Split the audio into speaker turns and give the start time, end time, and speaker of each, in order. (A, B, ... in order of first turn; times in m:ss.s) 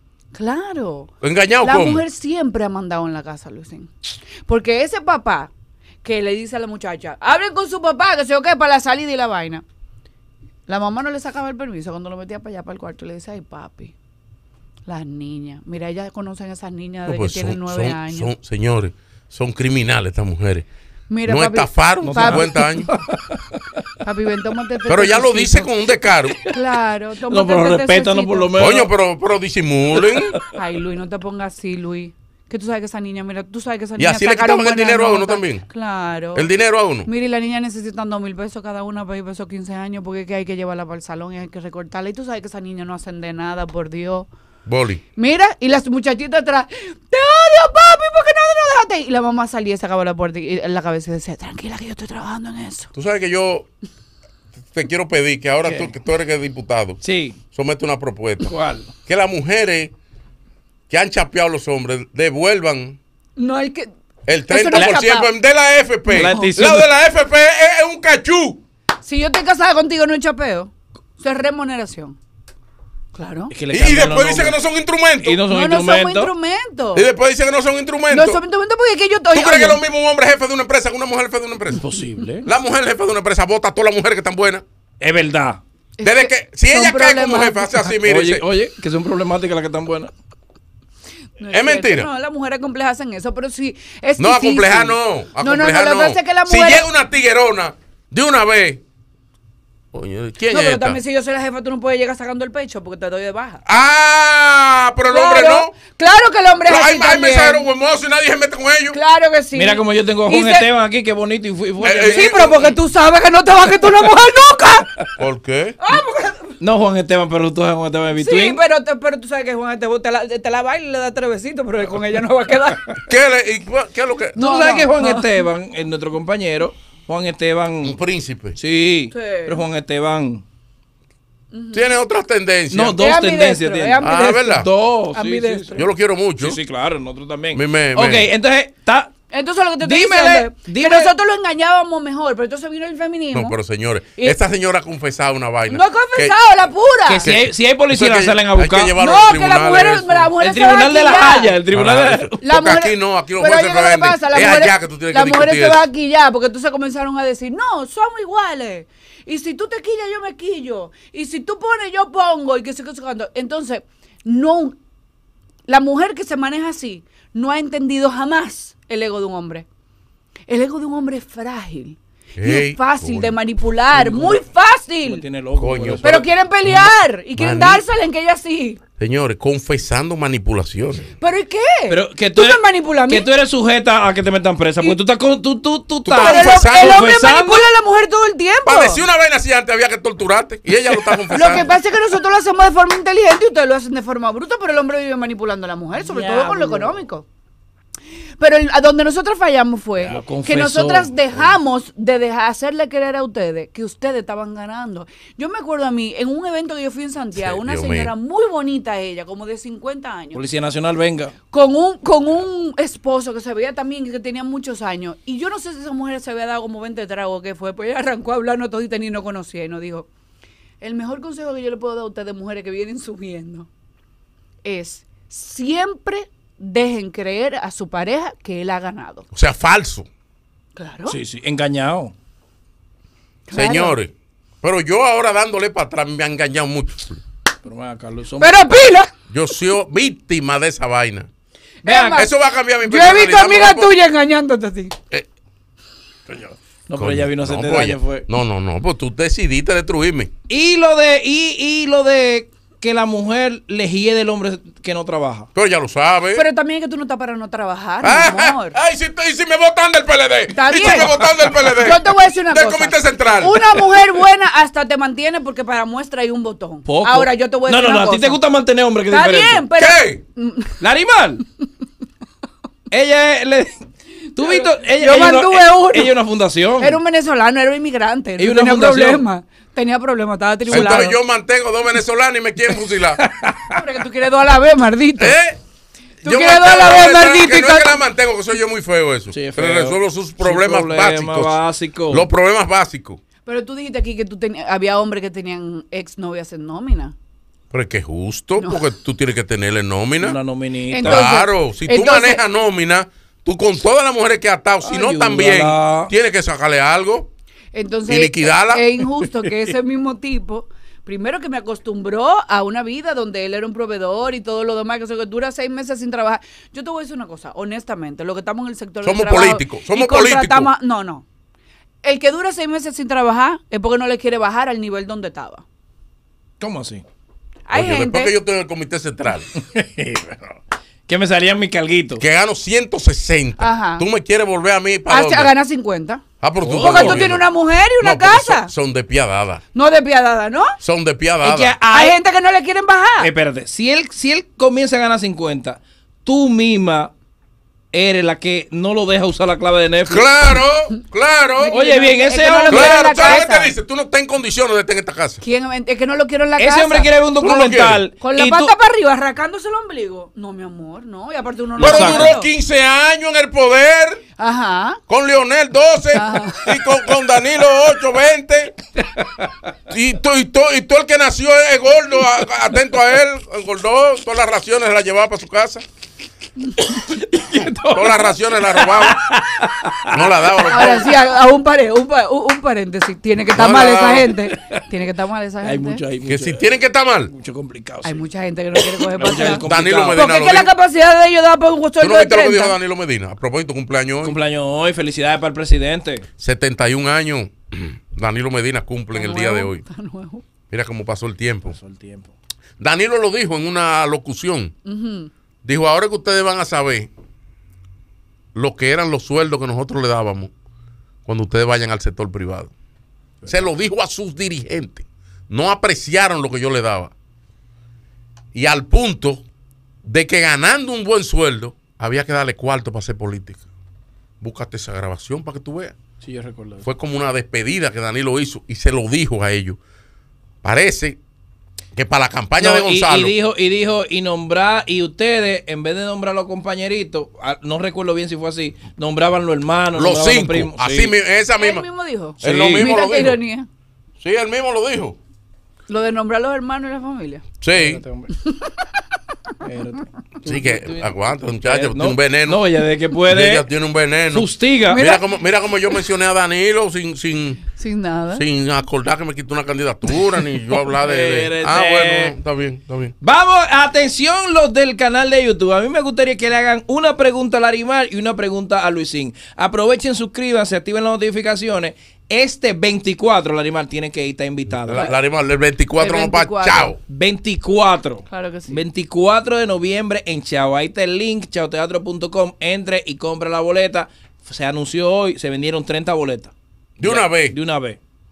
0:00.3-0:01.1 A
0:01.2-0:02.0 B
0:01.6-0:03.9 A
0:04.5-0:05.5 A
0:06.0-0:09.6 A
0:10.7-0:13.9 A
0:14.9-0:18.3 A
0:17.0-0:20.6 B
0:21.1-0:22.6 A
0:21.3-0:22.9 B
0:22.0-0:23.9 C
0:24.0-0:25.7 A
0:24.9-0:26.4 B
0:26.4-0:28.6 A
0:27.3-0:28.9 C
0:28.6-0:30.3 B
0:30.0-0:30.4 C
0:30.4-0:36.5 A
0:34.0-0:35.6 B
0:36.3-0:37.1 B
0:37.0-0:44.3 A
0:44.7-0:45.0 B
0:45.2-0:52.9 A
0:53.0-0:53.7 B
0:54.7-0:57.0 B
0:55.6-0:55.9 C
0:57.0-0:57.4 C
0:57.5-0:58.5 B
0:58.5-0:58.9 C
0:59.0-0:59.9 B
1:00.9-1:03.0 B
1:03.4-1:03.9 A
1:04.3-1:08.6 B
1:04.5-1:05.3 A
1:06.1-1:06.9 C
1:06.2-1:06.5 A
1:09.0-1:12.2 A
1:13.1-1:13.5 A
1:13.5-1:14.6 C
1:13.7-1:15.4 B
1:15.2-1:16.3 C
1:15.5-1:17.1 A
1:16.9-1:18.4 B
1:18.1-1:19.8 A
1:19.3-1:21.8 B
1:21.7-1:22.5 C
1:22.4-1:24.6 B
1:25.0-1:25.6 C
1:26.0-1:27.9 A
1:26.0-1:28.4 B
1:28.0-1:30.1 C
1:31.4-1:36.9 A
1:31.5-1:32.1 B
1:34.2-1:38.8 B
1:39.9-1:41.0 B
1:40.5-1:43.6 A
1:43.6-1:45.7 B
1:45.1-1:47.6 A
1:46.6-1:49.0 B
1:48.9-1:50.7 A
1:49.6-1:52.5 C
1:51.8-1:52.7 B
1:52.1-1:55.1 A
1:55.2-1:55.8 B
1:55.8-1:56.6 A
1:56.6-1:58.6 C
1:58.2-2:03.0 A
2:03.1-2:04.4 B
2:04.4-2:05.4 A
2:04.4-2:08.0 C
2:07.8-2:08.6 B
2:08.6-2:10.4 C
2:09.1-2:09.6 A
2:11.5-2:11.9 A
2:11.7-2:13.0 B
2:12.7-2:15.8 C
2:13.0-2:15.9 A
2:14.0-2:14.7 B
2:15.7-2:16.6 B
2:16.4-2:19.1 C
2:17.5-2:18.3 B
2:19.3-2:23.6 A
2:19.8-2:21.1 C
2:23.3-2:26.4 B
2:25.7-2:27.3 A
2:27.0-2:29.0 C
2:27.2-2:30.3 B
2:29.0-2:31.6 A
2:30.4-2:32.4 C
2:31.7-2:35.8 B
2:32.4-2:44.8 A
2:45.7-2:49.6 A
2:50.5-2:55.2 A
2:52.4-2:53.3 B
2:53.9-2:54.4 C
2:55.0-2:56.3 C
2:55.6-2:56.0 B
2:56.0-2:58.8 A
2:56.6-2:57.8 B
2:59.0-3:01.1 B
3:01.2-3:03.3 A
3:01.9-3:07.7 C
3:06.0-3:07.1 B
3:06.2-3:09.0 A
3:08.6-3:11.7 B
3:11.3-3:11.6 C
3:11.3-3:17.2 A
3:16.0-3:17.0 C
3:18.4-3:30.4 A
3:20.1-3:21.1 C
3:27.4-3:28.1 B
3:30.3-3:31.3 C
3:31.5-3:40.1 A
3:40.8-3:43.7 A
3:44.6-3:49.3 A
3:49.3-3:50.1 B
3:50.8-3:51.2 A
3:51.1-3:52.1 C
3:53.5-3:54.0 A
3:53.5-3:57.2 B
3:57.6-3:58.6 C
3:58.4-3:59.1 A
3:59.3-4:01.3 B
4:01.8-4:05.0 A
4:01.9-4:03.9 B
4:06.3-4:08.3 C
4:07.0-4:10.3 B
4:10.5-4:15.5 C
4:15.6-4:16.4 B
4:16.3-4:18.8 A
4:18.0-4:23.7 B
4:20.5-4:28.4 A
4:26.8-4:29.6 C
4:29.1-4:30.8 A
4:29.8-4:30.2 B
4:30.8-4:31.4 C
4:32.9-4:37.0 C
4:34.4-4:36.1 A
4:36.8-4:41.2 A
4:38.4-4:39.2 C
4:40.7-4:43.2 B
4:43.1-4:43.8 C
4:43.7-4:45.4 A
4:45.2-4:45.6 B
4:46.2-4:53.2 B
4:46.2-4:48.0 A
4:49.3-4:52.3 C
4:53.4-4:57.1 A
4:57.7-5:00.4 B
5:00.2-5:01.3 C
5:00.9-5:02.4 A
5:01.0-5:07.3 B
5:04.8-5:06.1 C
5:07.7-5:21.2 A
5:08.1-5:08.9 B
5:19.0-5:20.7 B
5:22.0-5:25.6 A
5:26.6-5:27.0 C
5:27.7-5:28.3 A
5:27.7-5:29.5 B
5:29.5-5:30.6 C
5:31.1-5:32.2 C
5:32.2-5:35.5 B
5:33.6-5:34.0 A
5:35.1-5:38.7 A
5:36.4-5:37.4 B
5:36.6-5:37.3 C
5:38.0-5:39.6 B
5:39.7-5:40.7 A
5:40.8-5:41.7 B
5:41.4-5:42.2 C
5:41.9-5:43.3 A
5:43.2-5:47.1 C
5:47.9-5:50.3 C
5:50.1-5:51.8 B
5:51.6-5:53.7 A
5:51.7-5:53.3 C
5:52.7-5:55.4 B
5:55.4-5:57.6 A
5:56.6-5:58.7 C
5:57.4-5:58.0 B
5:58.2-6:02.5 A
6:01.8-6:02.4 C
6:01.8-6:04.2 B
6:04.4-6:05.0 A
6:05.1-6:08.7 B
6:06.1-6:06.8 A
6:09.0-6:09.7 C
6:09.9-6:15.8 B
6:16.9-6:20.9 C
6:17.6-6:19.2 B
6:20.1-6:21.1 B
6:20.7-6:26.0 A
6:23.5-6:24.3 B
6:24.5-6:24.8 C
6:25.6-6:26.6 C
6:26.3-6:27.3 B
6:27.3-6:28.2 C
6:28.0-6:32.8 A
6:28.8-6:30.2 C
6:29.6-6:30.7 B
6:32.0-6:34.4 B
6:34.2-6:36.3 C
6:36.4-6:39.8 B
6:39.1-6:40.4 A
6:40.7-6:41.8 B
6:41.7-6:42.3 C
6:42.8-6:44.7 B
6:44.9-6:45.3 A
6:45.6-6:47.1 B
6:48.6-6:50.5 B
6:51.3-6:52.7 B
6:53.4-6:57.1 B
6:58.5-6:59.4 B
7:00.0-7:03.6 B
7:04.4-7:06.0 B
7:06.2-7:06.9 C
7:06.8-7:09.8 B
7:10.6-7:11.2 B
7:11.9-7:13.3 B
7:12.6-7:21.1 C
7:19.9-7:21.9 B
7:21.6-7:23.7 A
7:22.4-7:23.4 B
7:22.4-7:22.9 C
7:24.2-7:25.2 B
7:25.9-7:27.4 A
7:27.6-7:28.0 B
7:27.7-7:28.3 C
7:28.4-7:28.8 A
7:29.6-7:33.6 C
7:30.4-7:32.6 B
7:33.3-7:37.6 B
7:34.3-7:35.0 C
7:34.9-7:35.2 A
7:37.7-7:38.4 A
7:38.3-7:43.1 B
7:41.0-7:42.3 C
7:43.2-7:55.1 C
7:54.8-7:57.0 B
7:56.0-7:57.0 A
7:57.1-8:08.0 C
7:58.3-7:58.8 A
8:07.0-8:07.6 B